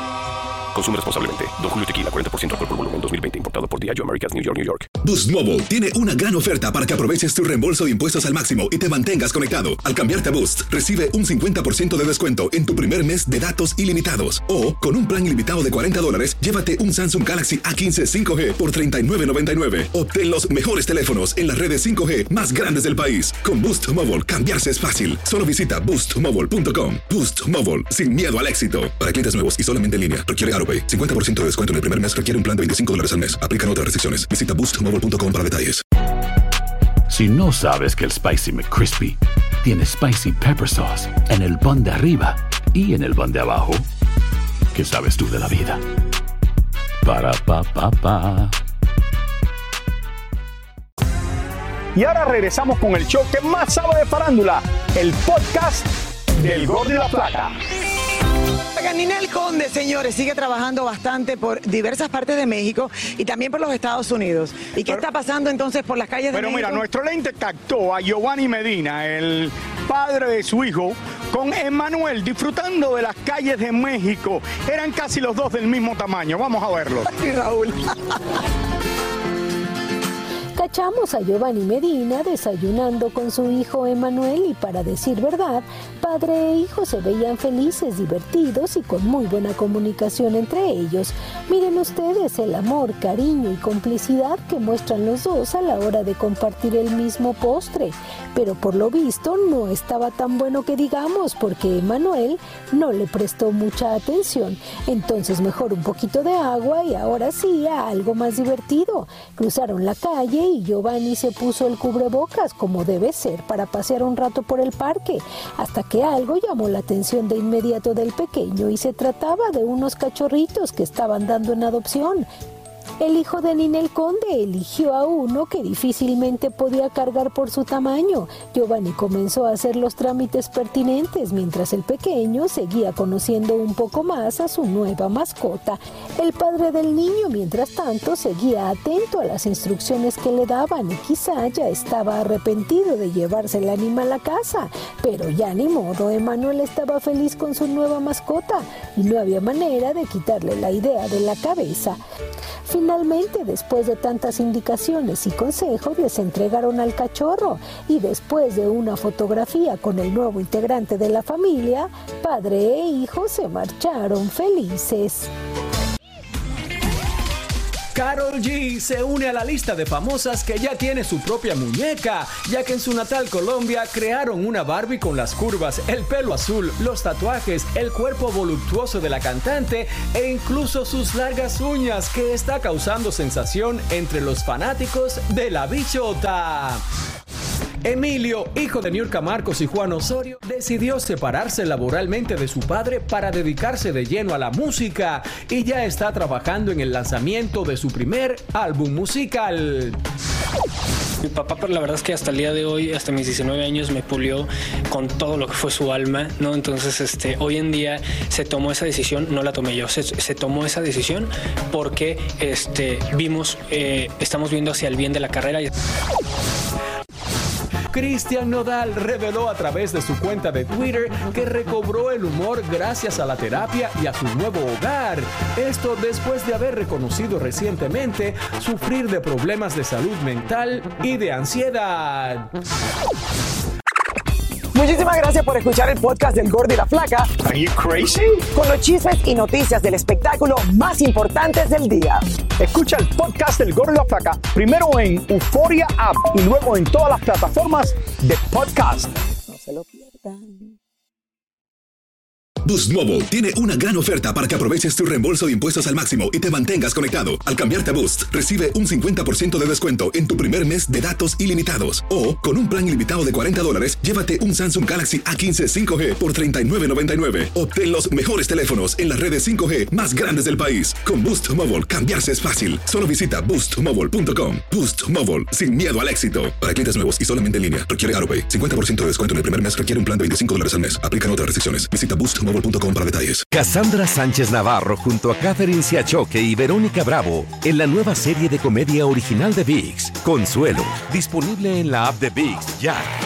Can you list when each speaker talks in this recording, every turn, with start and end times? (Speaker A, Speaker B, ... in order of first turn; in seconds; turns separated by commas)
Speaker A: 0.7-4.8, Speaker B: 5.0-35.8, Speaker C: 37.1-43.8, Speaker C: 44.7-45.8, Speaker C: 47.0-48.5, Speaker D: 51.9-55.8, Speaker D: 56.4-57.5, Speaker E: 58.7-66.8, Speaker D: 66.3-77.1, Speaker E: 77.2-78.0, Speaker F: 80.5-122.3, Speaker F: 123.0-152.0, Speaker F: 152.6-165.3, Speaker G: 167.9-186.8, Speaker G: 187.8-200.0, Speaker H: 201.2-215.7, Speaker G: 217.9-232.5, Speaker E: 234.7-237.3, Speaker D: 237.5-238.1, Speaker E: 238.5-242.2, Speaker D: 242.6-249.1, Speaker B: 252.6-283.4, Speaker I: 283.5-293.0